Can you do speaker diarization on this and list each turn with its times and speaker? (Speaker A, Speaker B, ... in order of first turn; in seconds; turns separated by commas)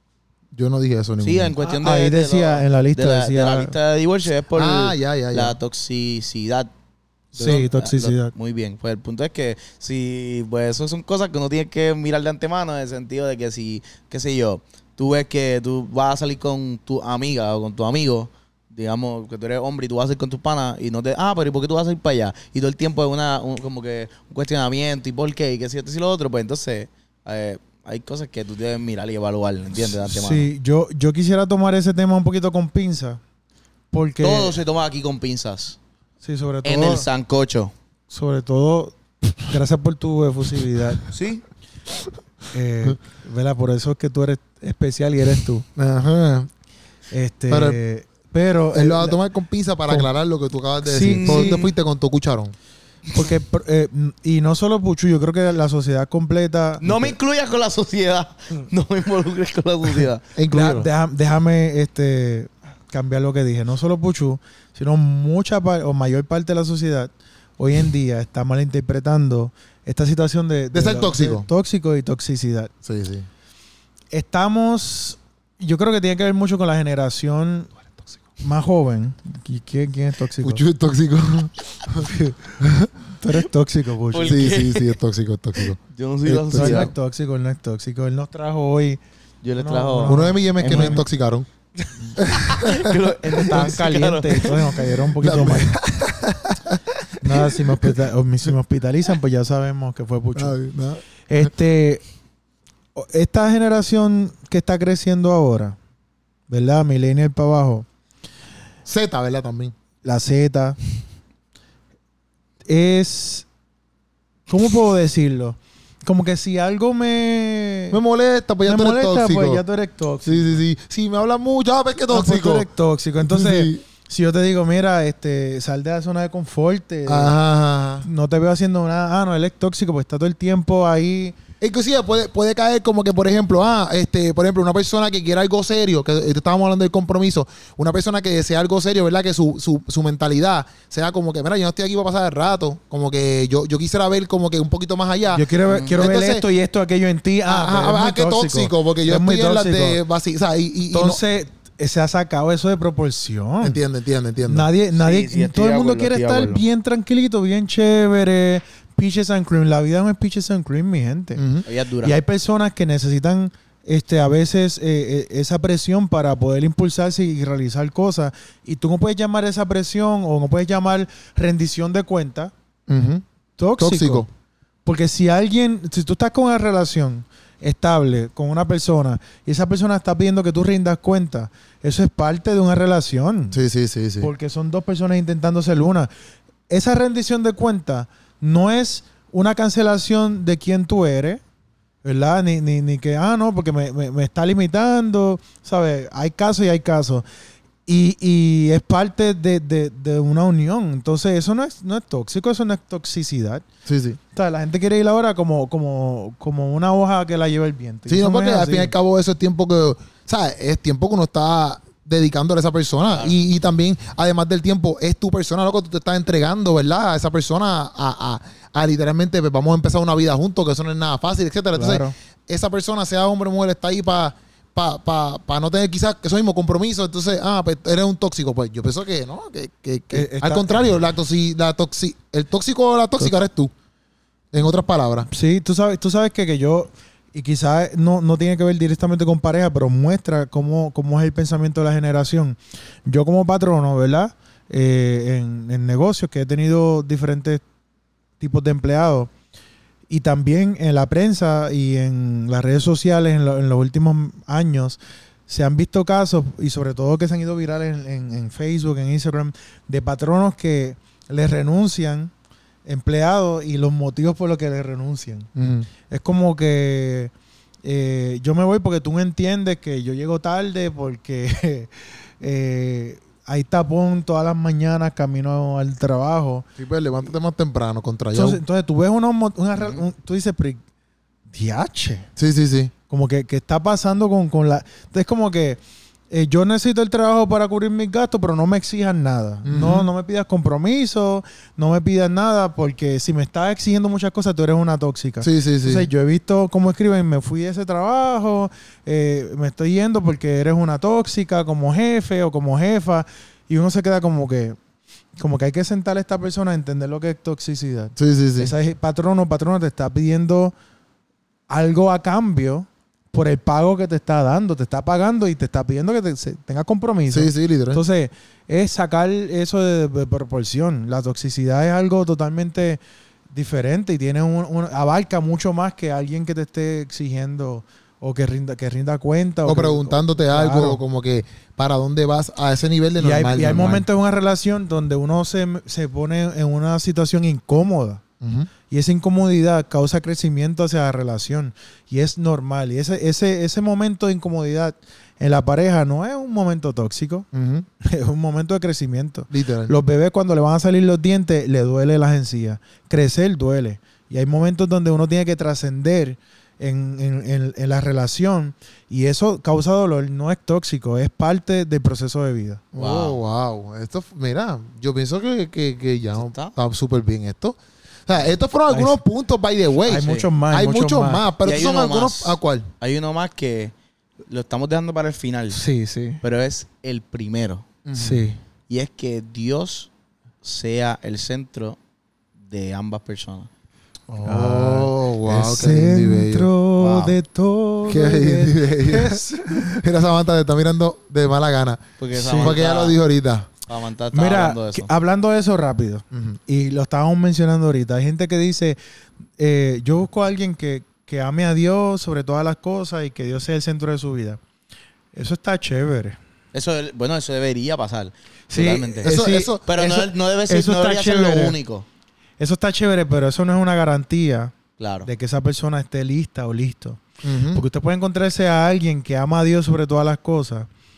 Speaker A: 0.5-1.5, Speaker B: 1.2-6.7, Speaker C: 1.6-3.8, Speaker A: 4.5-5.6, Speaker B: 7.3-30.5, Speaker C: 7.4-8.3, Speaker C: 30.1-33.2, Speaker C: 33.9-34.6, Speaker B: 34.2-35.8, Speaker C: 36.2-37.1, Speaker B: 36.6-37.7, Speaker C: 38.1-41.1, Speaker B: 41.1-41.4, Speaker C: 42.5-45.7, Speaker A: 45.8-46.5, Speaker C: 47.1-49.2, Speaker A: 47.5-47.8, Speaker A: 48.7-52.5, Speaker C: 50.8-51.6, Speaker B: 51.0-51.7, Speaker C: 53.1-57.1, Speaker B: 56.8-60.3, Speaker A: 60.4-60.9, Speaker C: 60.5-72.7, Speaker A: 70.7-71.5, Speaker A: 72.8-73.3, Speaker C: 74.1-77.7, Speaker C: 78.4-80.6, Speaker A: 80.4-82.9, Speaker C: 82.1-82.4, Speaker C: 83.2-84.5, Speaker B: 84.1-85.0, Speaker A: 84.2-86.9, Speaker B: 85.6-86.9, Speaker C: 86.5-89.0, Speaker B: 89.4-91.0, Speaker C: 89.6-91.0, Speaker A: 90.0-91.5, Speaker B: 91.8-94.9, Speaker A: 92.2-93.1, Speaker C: 93.3-95.8, Speaker A: 95.2-97.9, Speaker C: 97.2-100.6, Speaker A: 100.4-101.5, Speaker C: 101.3-102.0, Speaker C: 103.0-105.8, Speaker C: 106.5-107.9, Speaker A: 108.8-109.7, Speaker C: 110.0-110.8, Speaker C: 112.7-113.5, Speaker C: 114.5-118.0, Speaker A: 117.9-119.6, Speaker C: 118.7-120.6, Speaker A: 120.2-122.7, Speaker C: 122.1-127.3, Speaker A: 123.2-123.8, Speaker A: 127.1-128.1, Speaker C: 128.0-131.4, Speaker A: 131.6-146.4, Speaker C: 145.3-150.0, Speaker B: 145.7-146.0, Speaker A: 147.5-151.2, Speaker C: 150.9-153.8, Speaker A: 153.6-154.7, Speaker C: 154.4-161.4, Speaker B: 154.9-156.6, Speaker A: 161.4-161.7, Speaker B: 161.7-162.2, Speaker C: 162.0-172.5, Speaker A: 172.9-173.2, Speaker C: 173.6-174.3, Speaker A: 173.8-174.3, Speaker C: 174.8-183.6, Speaker A: 183.5-184.3, Speaker C: 184.2-186.1, Speaker C: 186.7-191.4, Speaker C: 192.0-197.2, Speaker C: 197.9-203.6, Speaker A: 203.9-204.2, Speaker C: 204.3-208.9, Speaker A: 208.1-233.7, Speaker C: 221.7-222.1, Speaker C: 230.1-230.8, Speaker A: 234.5-235.3, Speaker C: 235.3-247.6, Speaker C: 248.4-249.3, Speaker C: 250.1-262.3, Speaker C: 262.9-265.5, Speaker A: 265.6-265.9, Speaker C: 266.1-267.3, Speaker C: 267.8-276.7, Speaker A: 276.8-278.6, Speaker C: 278.3-280.8, Speaker C: 281.5-282.3, Speaker A: 282.4-282.9, Speaker C: 283.1-304.8, Speaker A: 289.6-290.1, Speaker A: 295.4-296.1, Speaker C: 305.4-310.7, Speaker A: 308.2-308.7, Speaker C: 311.7-323.0, Speaker A: 317.3-318.0, Speaker C: 323.5-331.0, Speaker A: 329.7-334.1, Speaker C: 333.2-338.2, Speaker A: 338.4-338.7, Speaker C: 338.9-347.5, Speaker A: 347.5-347.9, Speaker C: 348.0-362.9, Speaker A: 349.5-349.9, Speaker A: 362.9-372.9, Speaker B: 363.0-363.4, Speaker B: 366.4-366.8, Speaker C: 368.9-369.2, Speaker C: 370.1-371.4, Speaker B: 370.2-370.5, Speaker B: 371.6-373.9, Speaker B: 374.5-375.8, Speaker C: 375.7-376.4, Speaker B: 376.4-377.9, Speaker A: 378.1-378.5, Speaker C: 378.1-378.6, Speaker B: 378.9-380.1, Speaker B: 380.6-382.0, Speaker B: 382.7-383.7, Speaker A: 384.3-386.7, Speaker C: 384.4-389.9, Speaker B: 387.0-387.4, Speaker A: 388.1-393.7, Speaker B: 392.2-393.2, Speaker B: 393.9-395.1, Speaker C: 394.3-399.0, Speaker A: 396.3-396.6, Speaker C: 399.6-404.6, Speaker C: 405.3-406.4, Speaker B: 406.7-412.1, Speaker C: 408.7-411.8, Speaker A: 409.2-409.9, Speaker C: 412.6-420.9, Speaker B: 415.0-415.3, Speaker A: 417.4-417.8